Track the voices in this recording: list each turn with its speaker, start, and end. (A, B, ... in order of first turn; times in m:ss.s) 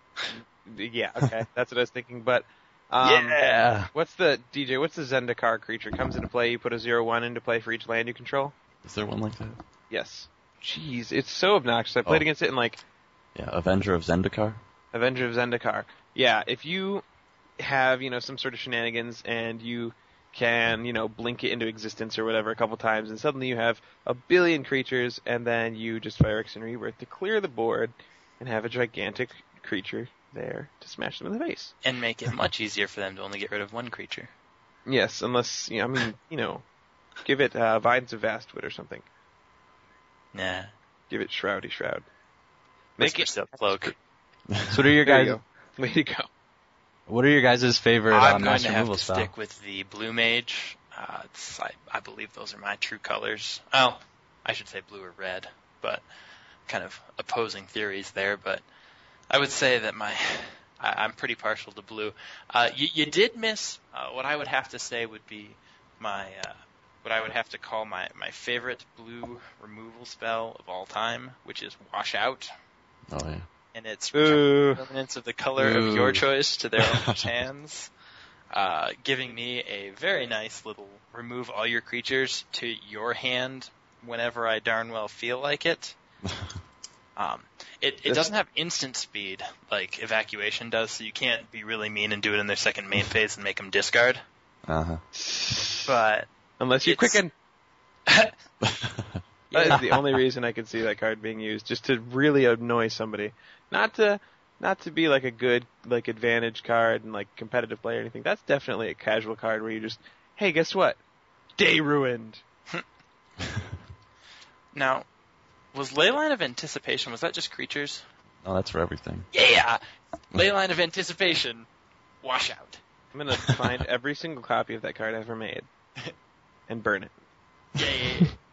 0:00.3-0:03.4 A
0:03.0-0:03.9 B
0:03.9-0:08.5 A
0:08.8-0:09.6 C
0:09.9-0:12.8 A
0:13.4-0:14.6 C
0:14.9-0:17.0 A
0:17.6-0:31.7 A
0:31.8-0:34.3 D
0:34.9-0:36.6 A
0:37.2-0:39.1 A
0:40.3-0:40.7 D
0:41.1-0:42.0 A
0:43.0-0:44.0 A
0:43.0-0:44.0 D
0:44.5-0:44.8 C
0:44.7-0:45.4 B
0:45.0-0:46.3 A
0:47.1-0:49.3 B
0:48.1-0:56.0 D
0:56.7-0:58.6 D
0:59.3-1:12.5 D
1:13.1-1:13.5 C
1:13.7-1:17.9 D
1:14.1-1:14.8 A
1:15.6-1:16.2 B
1:16.8-1:17.3 C
1:18.5-1:26.0 D
1:26.2-1:26.6 C
1:27.2-1:34.2 D
1:28.1-1:28.3 A
1:34.7-1:35.0 C
1:35.2-1:36.0 A
1:35.8-1:36.3 D
1:36.6-1:37.3 A
1:36.8-1:37.2 D
1:38.1-1:38.3 D
1:38.6-1:39.2 C
1:39.5-1:39.9 D
1:39.5-1:51.0 A
1:51.6-1:52.4 A
1:54.7-1:55.1 D
1:55.7-1:58.0 D
1:58.4-1:59.3 C
1:59.3-1:59.8 D
2:00.3-2:01.7 D
2:02.2-2:02.8 D
2:03.1-2:05.7 A
2:06.7-2:07.1 A
2:07.8-2:08.3 D